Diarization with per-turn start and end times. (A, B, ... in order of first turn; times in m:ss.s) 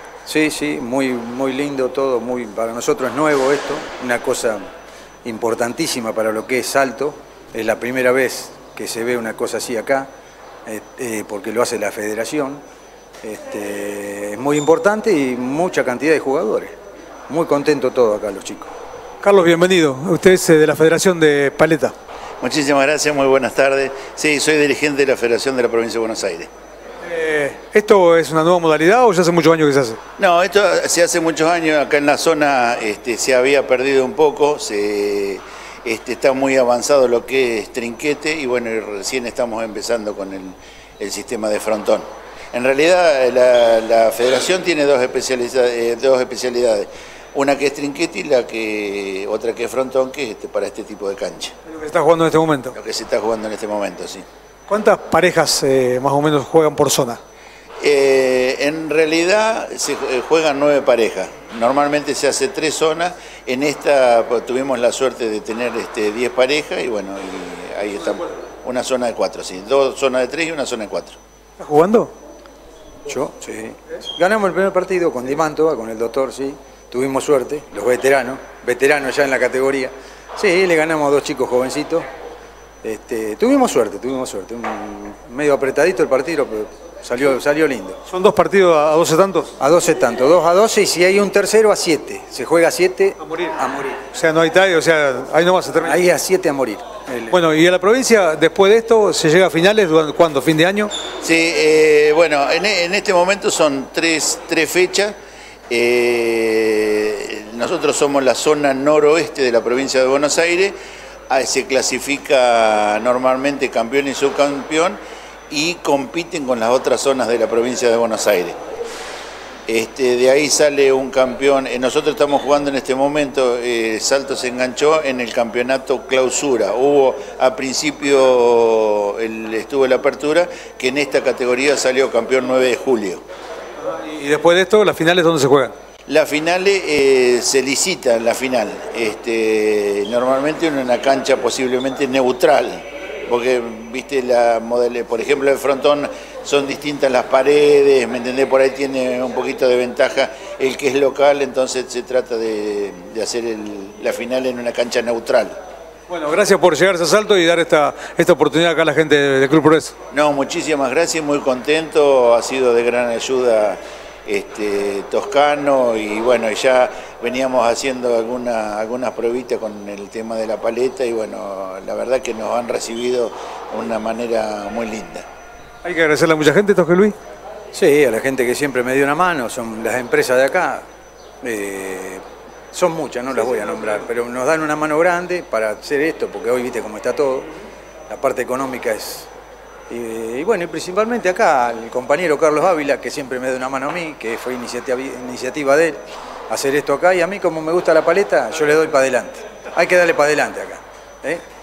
0:00.3-0:04.6 A
0:05.2-0:10.1 A
0:10.7-0:12.6 A
0:13.2-0:16.8 A
0:17.3-0:18.7 A
0:19.2-0:21.9 B
0:22.4-0:26.5 C
0:27.0-0:30.0 B
0:30.2-0:51.5 C
0:51.7-0:52.8 B
0:52.7-0:54.2 C
0:54.7-0:57.2 B
0:57.8-1:11.2 C
1:11.6-1:12.1 B
1:13.1-1:22.1 A
1:22.8-1:28.0 A
1:28.1-1:29.6 B
1:29.6-1:34.0 A
1:33.2-1:33.5 B
1:34.1-1:36.0 B
1:35.8-1:37.4 A
1:37.3-1:40.9 B
1:41.2-1:45.2 C
1:45.7-1:50.8 C
1:51.3-1:55.0 C
1:55.5-1:58.6 C
1:59.7-2:13.2 C
2:13.8-2:15.7 B
2:16.1-2:35.6 C
2:36.1-2:39.9 B
2:40.1-2:55.2 C
2:55.8-2:57.2 B
2:57.7-3:00.8 A
3:01.4-3:07.5 A
3:08.1-3:09.3 A
3:09.9-3:21.4 A